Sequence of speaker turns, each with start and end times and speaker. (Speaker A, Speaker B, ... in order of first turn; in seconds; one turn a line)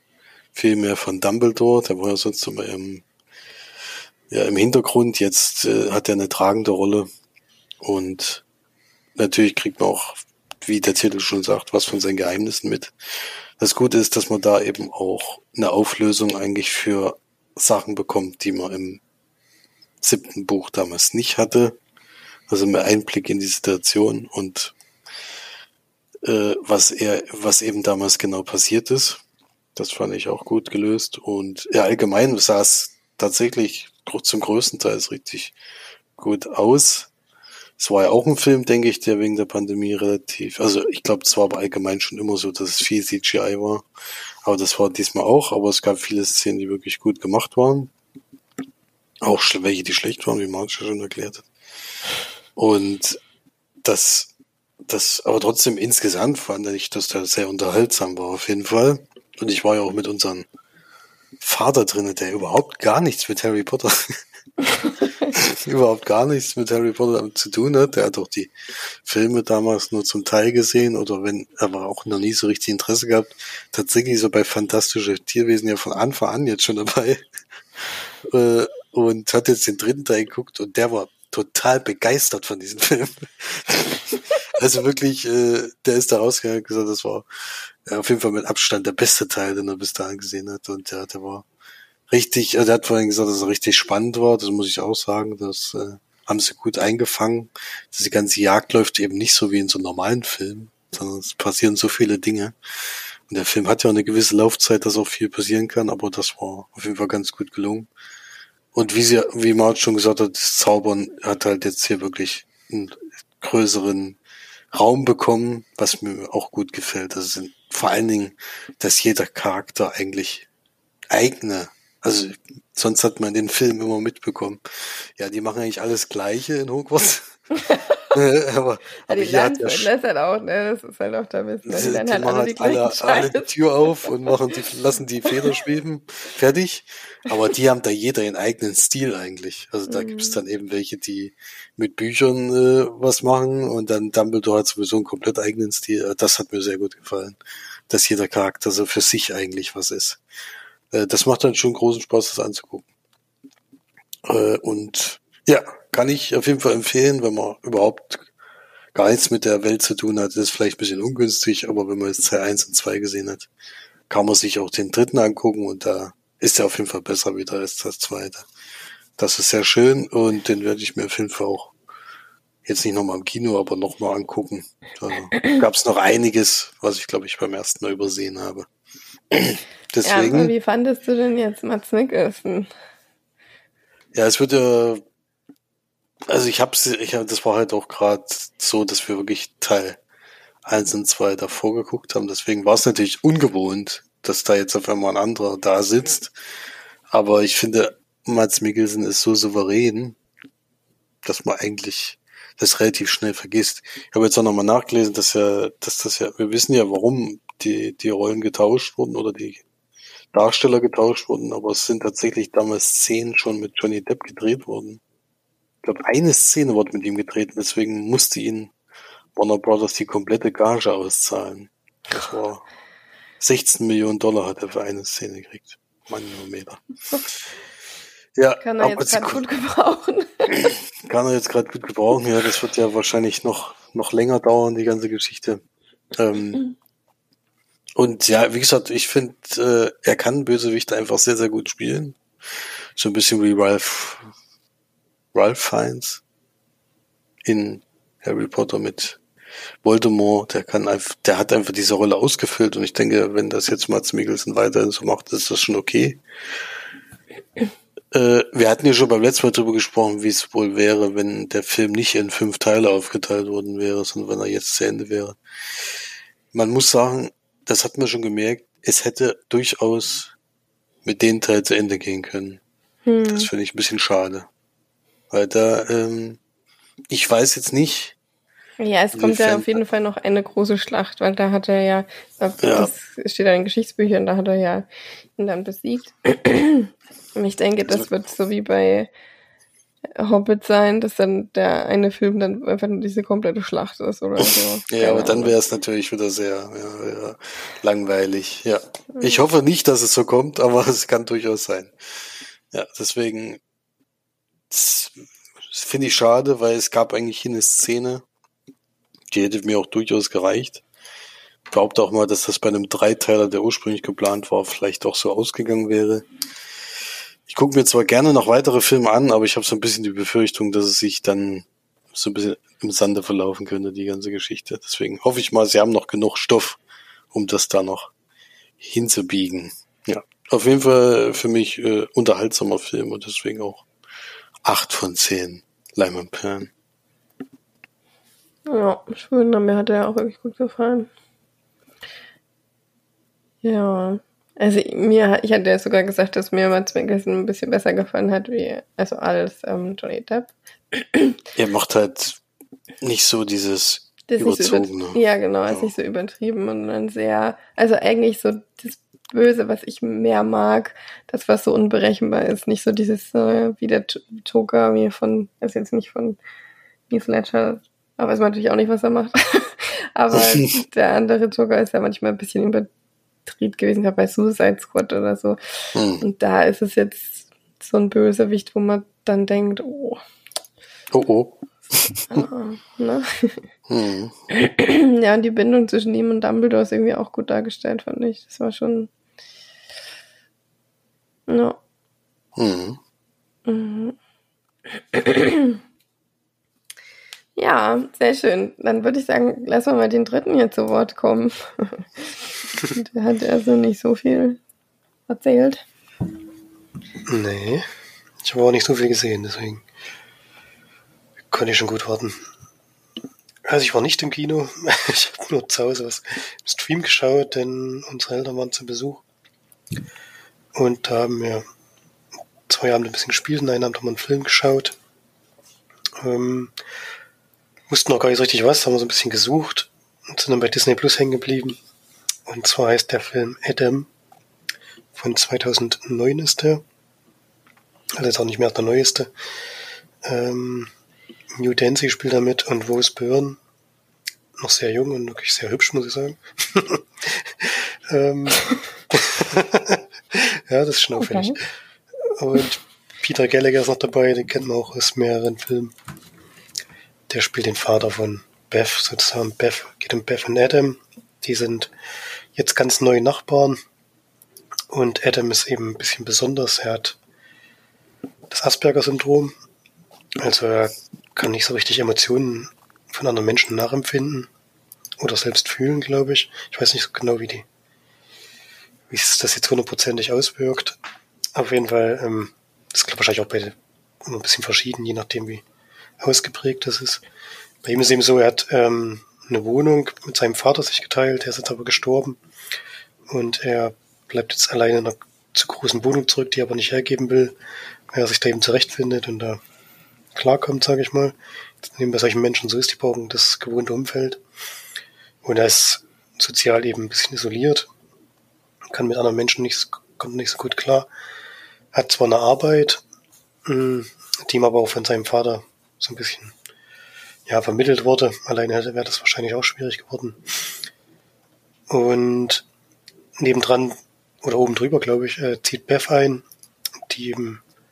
Speaker A: 0.5-3.0
Speaker A: 4.3-7.1
Speaker A: 7.8-8.4
Speaker A: 9.2-12.9
Speaker A: 13.6-19.0
Speaker A: 20.0-21.8
Speaker A: 22.5-24.7
Speaker A: 26.2-29.2
Speaker A: 29.8-35.5
Speaker A: 36.2-37.1
Speaker A: 37.8-43.9
Speaker A: 44.4-47.9
Speaker A: 49.2-51.4
Speaker A: 52.5-53.2
Speaker A: 53.8-54.3
Speaker A: 54.9-60.5
Speaker A: 61.4-64.2
Speaker A: 65.3-68.5
Speaker A: 69.0-77.2
Speaker A: 77.8-91.4
Speaker A: 92.1-102.5
Speaker A: 103.3-107.9
Speaker A: 108.7-114.2
Speaker A: 114.7-120.5
Speaker A: 121.1-127.4
Speaker B: 127.7-128.1
Speaker A: 128.1-129.9
Speaker B: 129.1-133.5
Speaker A: 131.7-147.4
Speaker B: 139.9-140.4
Speaker A: 147.9-150.2
Speaker A: 150.9-152.8
Speaker A: 154.2-158.2
Speaker A: 158.9-163.5
Speaker A: 164.1-168.4
Speaker A: 169.2-171.7
Speaker A: 172.6-178.7
Speaker A: 179.3-180.5
Speaker B: 180.0-182.7
Speaker A: 184.1-185.0
Speaker A: 186.3-190.0
Speaker A: 190.6-196.3
Speaker A: 197.1-200.2
Speaker A: 201.2-209.6
Speaker A: 210.3-215.0
Speaker A: 215.8-218.7
Speaker A: 219.3-222.7
Speaker A: 223.4-226.8
Speaker A: 228.4-229.4
Speaker B: 228.6-230.5
Speaker A: 231.0-235.6
Speaker A: 236.1-236.6
Speaker A: 238.0-242.2
Speaker A: 242.9-244.3
Speaker A: 245.3-246.2
Speaker A: 247.4-249.2
Speaker A: 249.8-256.2
Speaker A: 258.1-265.9
Speaker A: 266.5-270.3
Speaker A: 271.0-272.6
Speaker B: 273.1-273.5
Speaker A: 273.3-274.5
Speaker A: 275.3-276.4
Speaker A: 277.1-278.1
Speaker B: 278.8-289.1
Speaker A: 279.1-279.8
Speaker A: 282.6-282.9
Speaker B: 290.1-295.6
Speaker A: 294.4-303.6
Speaker A: 304.7-308.2
Speaker A: 309.3-310.8
Speaker A: 311.7-316.2
Speaker A: 317.5-326.8
Speaker A: 327.3-328.1
Speaker A: 328.8-333.9
Speaker A: 334.6-336.7
Speaker B: 338.7-341.1
Speaker B: 343.6-351.4
Speaker A: 351.5-352.4
Speaker A: 353.0-355.9
Speaker B: 354.3-366.4
Speaker B: 367.1-372.9
Speaker A: 370.4-370.6
Speaker B: 373.4-375.6
Speaker A: 375.9-376.2
Speaker B: 376.2-380.2
Speaker A: 381.1-382.2
Speaker B: 382.3-383.6
Speaker A: 383.9-384.3
Speaker B: 384.5-389.1
Speaker B: 391.5-391.8
Speaker A: 392.6-393.0
Speaker B: 393.6-394.1
Speaker B: 395.1-395.8
Speaker B: 397.6-404.6
Speaker B: 405.3-405.8
Speaker C: 407.2-407.9
Speaker C: 408.4-409.9
Speaker C: 411.5-412.4
Speaker C: 413.6-419.2
Speaker C: 420.7-421.6
Speaker C: 422.7-424.9
Speaker C: 426.2-426.8
Speaker C: 427.9-431.8
Speaker C: 432.4-434.1
Speaker C: 435.1-436.8
Speaker C: 438.1-439.3
Speaker C: 440.2-440.9
Speaker C: 441.5-443.6
Speaker C: 444.6-451.7
Speaker B: 451.2-451.6
Speaker C: 452.2-455.9
Speaker C: 457.3-461.9
Speaker C: 462.5-463.8
Speaker C: 464.9-467.2
Speaker C: 468.5-469.5
Speaker C: 470.4-474.5
Speaker C: 475.2-477.6
Speaker C: 479.1-481.0
Speaker C: 481.5-485.6
Speaker C: 486.2-487.2
Speaker C: 487.8-492.4
Speaker C: 493.3-497.6
Speaker C: 498.1-499.6
Speaker C: 500.3-504.4
Speaker C: 505.4-507.9
Speaker C: 508.9-511.1
Speaker C: 511.9-513.0
Speaker C: 513.6-516.5
Speaker C: 517.5-520.8
Speaker C: 521.9-522.6
Speaker C: 523.4-526.5
Speaker C: 527.0-527.6